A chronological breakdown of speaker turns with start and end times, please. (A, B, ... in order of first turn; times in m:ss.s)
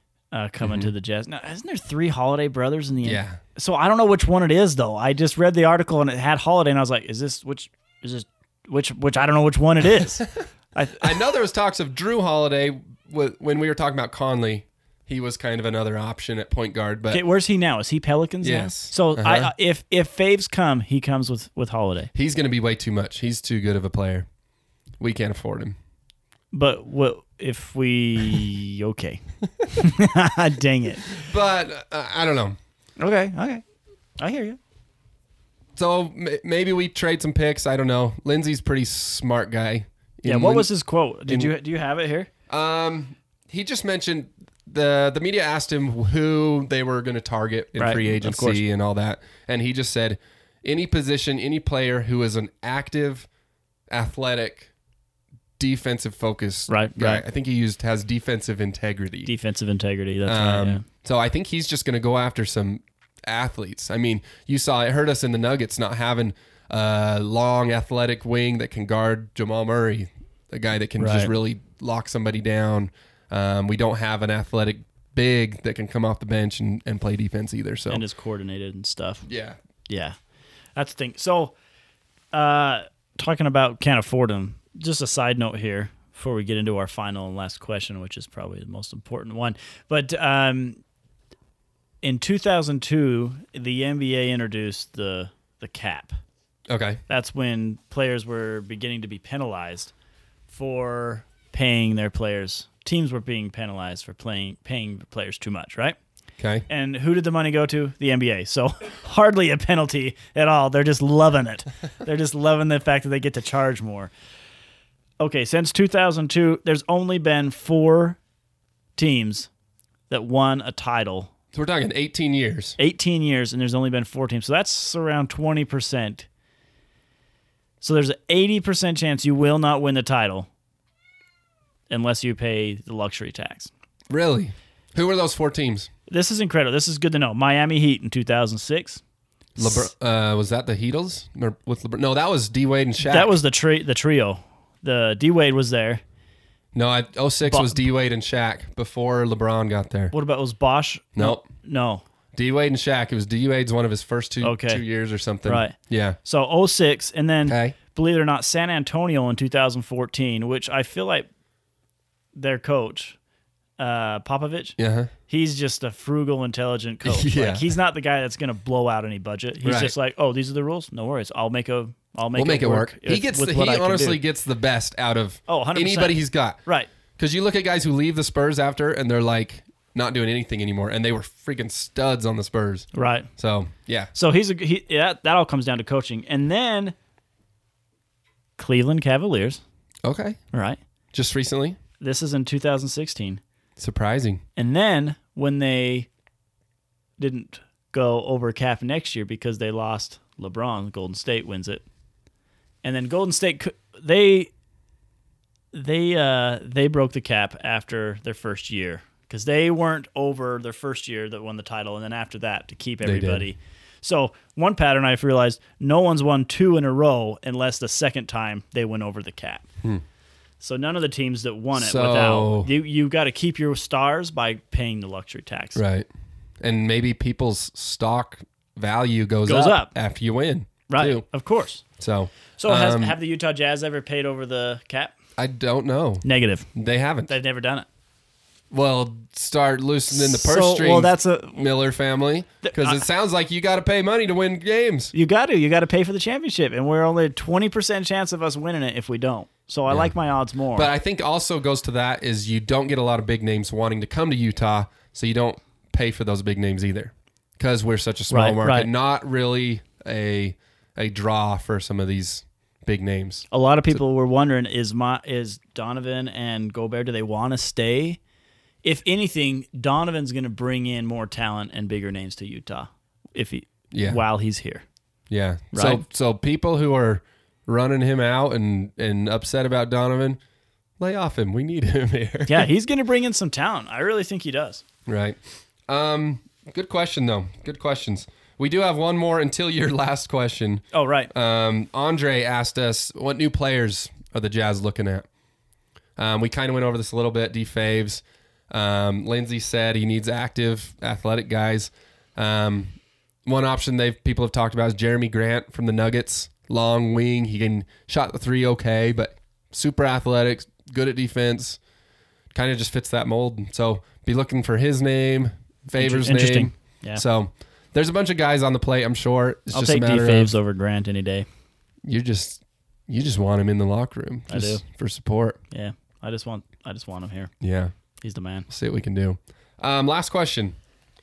0:00.3-0:11.2 A
0:00.6-0:00.9 B
0:03.0-0:03.4 B
0:11.0-0:17.2 B
0:17.1-0:22.1 A
0:18.4-0:19.5 B
0:22.1-0:24.3 B
0:25.0-0:25.7 B
0:26.5-0:31.2 A
0:31.1-0:32.6 B
0:33.0-0:33.6 A
0:34.2-0:34.6 A
0:35.8-0:40.7 B
0:40.2-0:42.3 A
0:41.3-0:41.5 B
0:42.5-0:53.3 B
0:47.8-0:48.6 A
0:53.9-0:54.7 B
0:55.6-0:59.3 B
0:56.7-0:57.2 A
0:59.2-1:00.8 A
1:00.2-1:18.0 B
1:11.0-1:11.3 A
1:17.9-1:19.2 A
1:19.3-1:19.6 B
1:19.9-1:20.2 A
1:20.8-1:21.5 A
1:22.3-1:30.8 A
1:32.0-1:36.2 A
1:36.7-1:37.0 B
1:37.1-1:39.9 A
1:40.5-1:46.0 A
1:46.4-1:46.6 B
1:46.7-1:54.1 A
1:55.2-1:58.2 A
1:59.0-1:59.5 A
2:00.1-2:01.3 A
2:01.5-2:02.8 B
2:02.8-2:06.3 A
2:07.8-2:10.5 A
2:11.9-2:13.7 A
2:14.1-2:15.9 B
2:16.1-2:19.0 A
2:19.6-2:23.4 B
2:23.0-2:26.0 A
2:26.7-2:30.1 B
2:27.4-2:27.8 A
2:30.1-2:32.0 A
2:31.2-2:31.4 B
2:32.3-2:36.2 B
2:34.4-2:34.8 A
2:35.4-2:41.3 A
2:37.5-2:37.8 B
2:42.4-2:43.2 A
2:43.8-2:54.2 A
2:44.8-2:45.1 B
2:47.0-2:47.7 B
2:49.6-2:49.9 B
2:52.4-2:56.6 B
2:55.5-2:56.9 A
2:57.2-3:04.1 B
3:02.9-3:03.3 A
3:04.1-3:06.9 A
3:08.6-3:09.6 A
3:10.0-3:10.4 B
3:10.5-3:10.8 A
3:11.1-3:11.8 B
3:12.0-3:13.4 A
3:13.8-3:14.4 B
3:14.6-3:16.1 A
3:17.2-3:21.8 A
3:22.8-3:24.5 A
3:25.7-3:39.6 A
3:33.0-3:33.4 B
3:40.6-3:45.8 A
3:41.7-3:42.7 B
3:45.8-3:46.1 B
3:46.6-3:51.2 B
3:49.4-3:49.9 A
3:50.9-3:51.8 A
3:52.0-3:53.2 B
3:52.6-3:55.1 A
3:55.4-3:56.2 B
3:56.2-3:56.7 A
3:56.7-3:57.3 B
3:57.3-3:57.9 A
3:58.7-4:05.1 B
4:00.1-4:01.6 A
4:02.6-4:03.1 A
4:05.1-4:10.9 A
4:10.7-4:24.0 B
4:18.3-4:18.9 A
4:23.5-4:28.2 A
4:28.8-4:34.8 A
4:33.9-4:34.2 B
4:35.3-4:40.4 B
4:35.7-4:36.0 A
4:41.0-4:42.7 B
4:42.5-4:44.8 A
4:45.0-4:55.2 B
4:50.9-4:51.3 A
4:56.2-5:11.8 B
5:12.5-5:20.5 B
5:15.9-5:17.2 A
5:19.7-5:21.4 A
5:22.0-5:25.6 B
5:24.5-5:24.8 A
5:25.7-5:27.5 A
5:27.6-5:27.9 B
5:28.2-5:28.7 A
5:28.7-5:30.7 B